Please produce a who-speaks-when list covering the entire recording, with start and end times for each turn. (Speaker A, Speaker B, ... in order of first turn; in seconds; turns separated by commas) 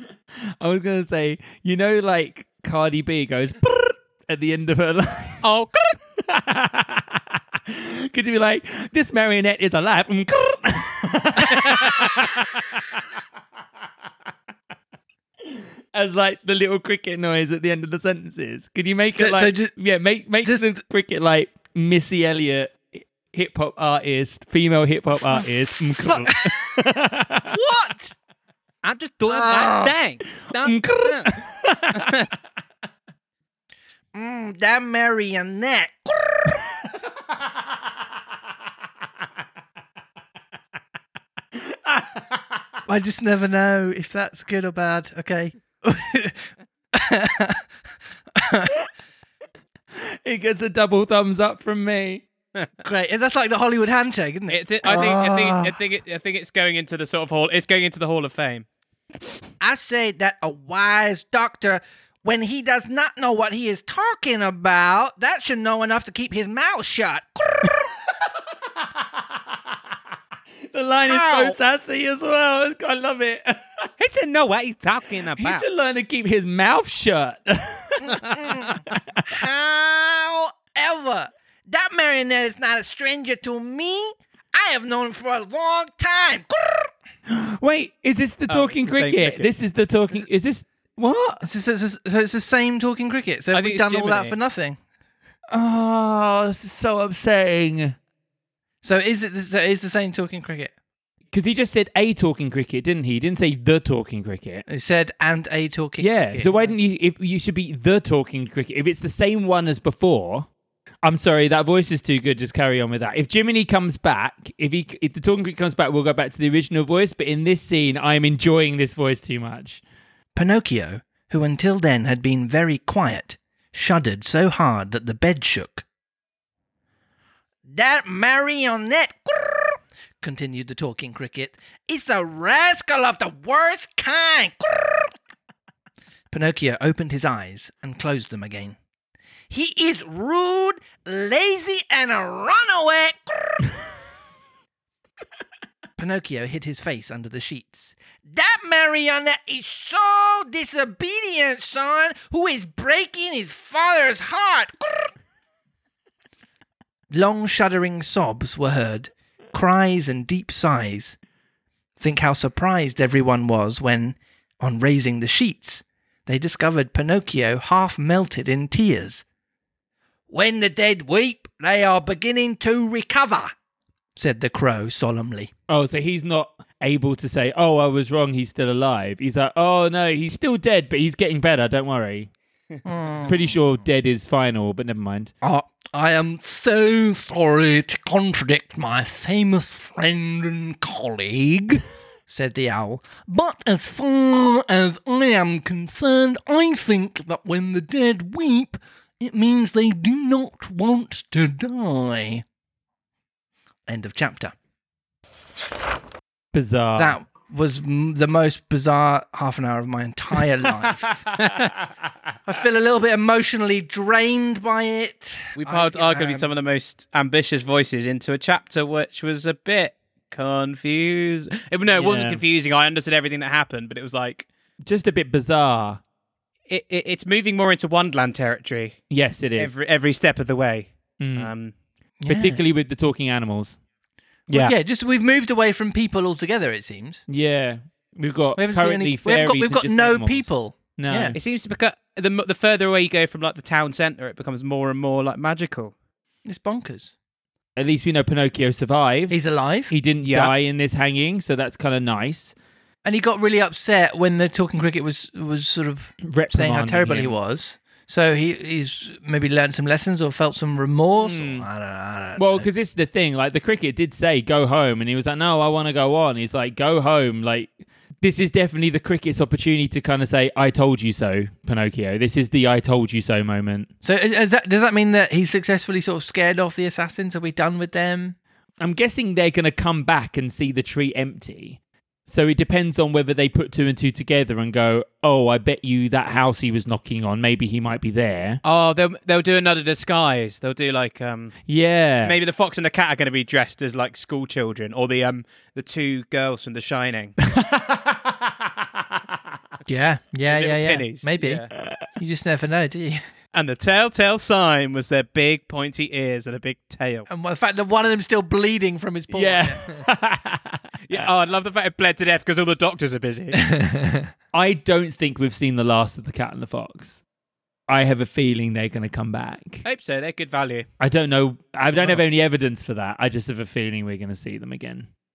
Speaker A: 0.6-5.5, Speaker B: 5.4-6.0, Speaker A: 6.2-13.0, Speaker A: 15.9-27.5, Speaker C: 19.2-19.8, Speaker C: 20.4-20.7, Speaker C: 26.0-27.0, Speaker C: 27.5-28.1, Speaker C: 28.8-29.9, Speaker B: 29.3-31.4, Speaker A: 30.4-32.2, Speaker B: 31.9-32.3, Speaker C: 34.1-36.6, Speaker A: 41.6-42.4, Speaker C: 42.9-47.8, Speaker C: 48.3-48.7, Speaker A: 50.0-52.3, Speaker C: 52.8-55.8, Speaker B: 54.5-58.7, Speaker C: 59.6-67.8, Speaker A: 70.7-73.6, Speaker C: 71.1-71.6, Speaker B: 74.0-75.7, Speaker A: 75.4-78.2, Speaker C: 78.0-86.9, Speaker A: 87.3-91.5, Speaker B: 88.5-89.5, Speaker C: 91.4-94.8, Speaker B: 93.5-94.4, Speaker A: 95.5-98.0, Speaker C: 98.8-100.7, Speaker A: 101.3-104.7, Speaker C: 104.7-106.8, Speaker A: 106.0-110.5, Speaker A: 111.0-119.8, Speaker C: 120.3-125.9, Speaker C: 127.7-135.2, Speaker C: 136.3-138.8, Speaker C: 139.5-143.7, Speaker C: 146.0-155.1, Speaker C: 157.1-161.2, Speaker C: 162.0-169.2, Speaker C: 170.3-173.5, Speaker C: 174.2-175.5, Speaker A: 175.7-182.3, Speaker C: 182.8-183.6, Speaker A: 183.2-185.3, Speaker C: 185.4-202.4, Speaker C: 203.9-204.6, Speaker A: 206.5-207.2, Speaker C: 207.0-211.2, Speaker B: 211.3-211.7, Speaker C: 212.5-216.5, Speaker B: 215.6-224.5, Speaker A: 221.9-222.4, Speaker A: 224.9-226.0, Speaker B: 226.7-231.7, Speaker A: 229.1-229.7, Speaker A: 231.2-231.5, Speaker C: 232.2-232.6, Speaker A: 232.3-233.8, Speaker B: 234.5-234.8, Speaker C: 234.5-237.2, Speaker A: 237.3-241.4, Speaker C: 238.6-241.4, Speaker B: 241.3-245.9, Speaker C: 246.4-247.1, Speaker A: 247.8-252.6, Speaker C: 249.3-249.9, Speaker B: 250.2-250.5, Speaker C: 253.1-262.7, Speaker A: 256.2-257.4, Speaker B: 261.2-261.6, Speaker A: 262.4-273.9, Speaker C: 274.0-278.4, Speaker A: 278.8-288.6, Speaker B: 288.6-291.7, Speaker A: 291.7-292.4, Speaker B: 292.2-297.4, Speaker A: 297.6-298.4, Speaker C: 299.9-301.6, Speaker B: 300.5-301.7, Speaker A: 301.8-302.1, Speaker C: 302.1-303.2, Speaker B: 303.5-307.3, Speaker C: 307.3-310.1, Speaker A: 309.3-311.3, Speaker B: 311.1-313.7, Speaker C: 313.6-314.3, Speaker A: 314.5-317.2, Speaker A: 317.9-319.9, Speaker B: 319.9-320.9, Speaker A: 321.0-325.1